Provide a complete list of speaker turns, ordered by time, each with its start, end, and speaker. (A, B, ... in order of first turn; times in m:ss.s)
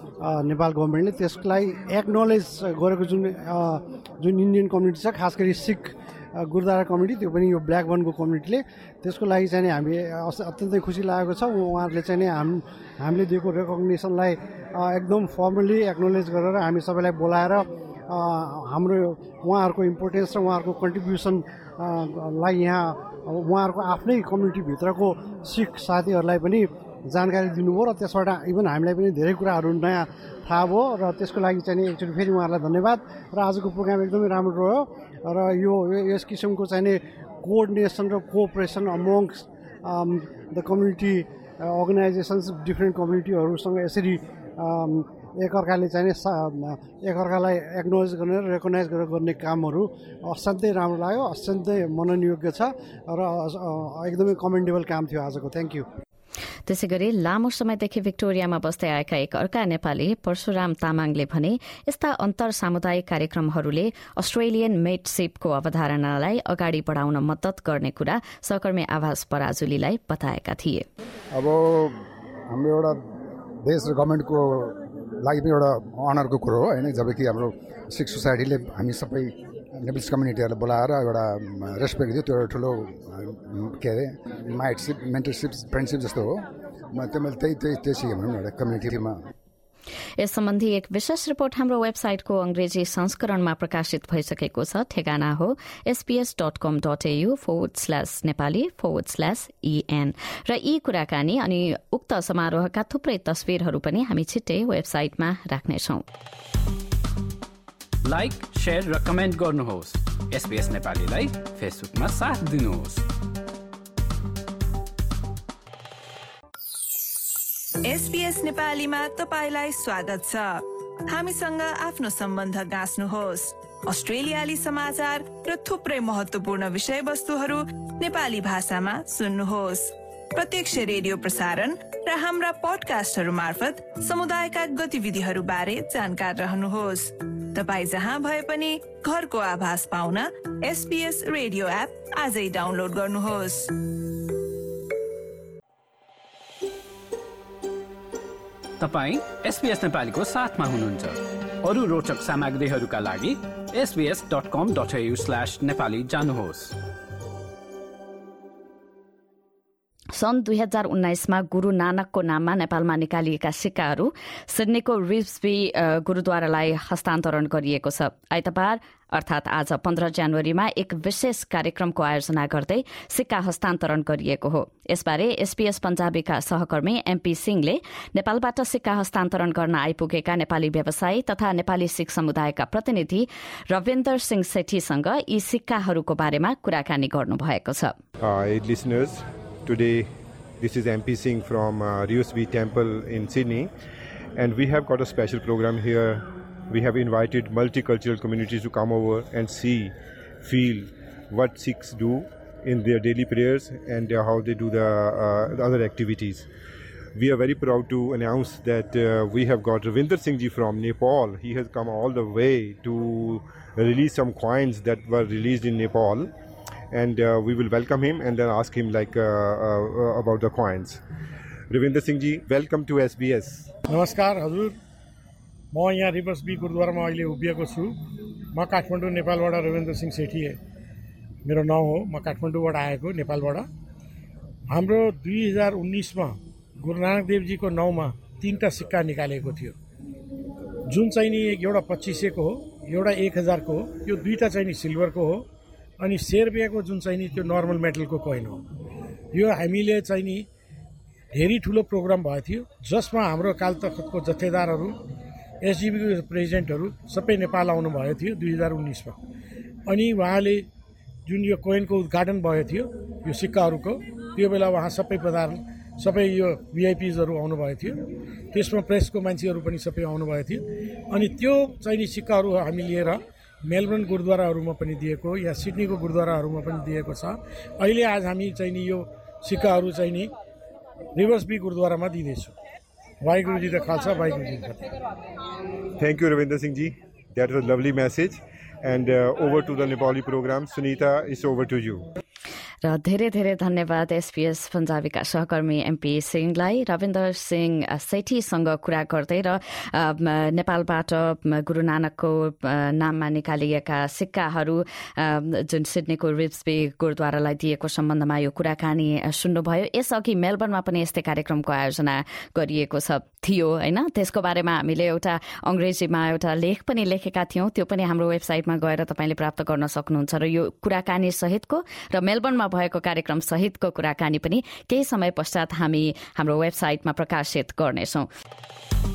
0:00.2-0:55.8 A
0:56.7-1:10.8 B
1:11.3-1:12.0 C
1:12.5-1:13.0 C
1:13.6-1:26.4 C
1:26.9-1:29.3 C
1:30.2-1:46.0 B
1:48.0-1:53.0 D
1:57.8-2:23.7 E
2:28.8-2:36.7 D
2:40.2-3:07.9 B
3:08.2-3:10.1 F
3:10.6-3:13.7 F
3:14.4-3:26.5 F
3:27.2-3:36.3 F
3:36.9-3:41.0 F
3:41.7-3:43.7 F
3:43.9-3:44.7 G
3:45.7-3:47.9 G
3:48.5-3:50.6 G
3:51.4-3:53.7 G
3:54.7-3:59.7 G
4:00.9-4:05.4 G
4:06.0-4:08.6 G
4:09.3-4:10.4 G
4:11.3-4:14.9 G
4:15.6-4:19.2 G
4:19.9-4:20.6 G
4:21.2-4:28.0 G
4:28.5-4:40.3 G
4:41.2-4:42.5 G
4:43.2-4:44.8 G
4:46.0-4:52.0 F
4:52.8-5:28.3 B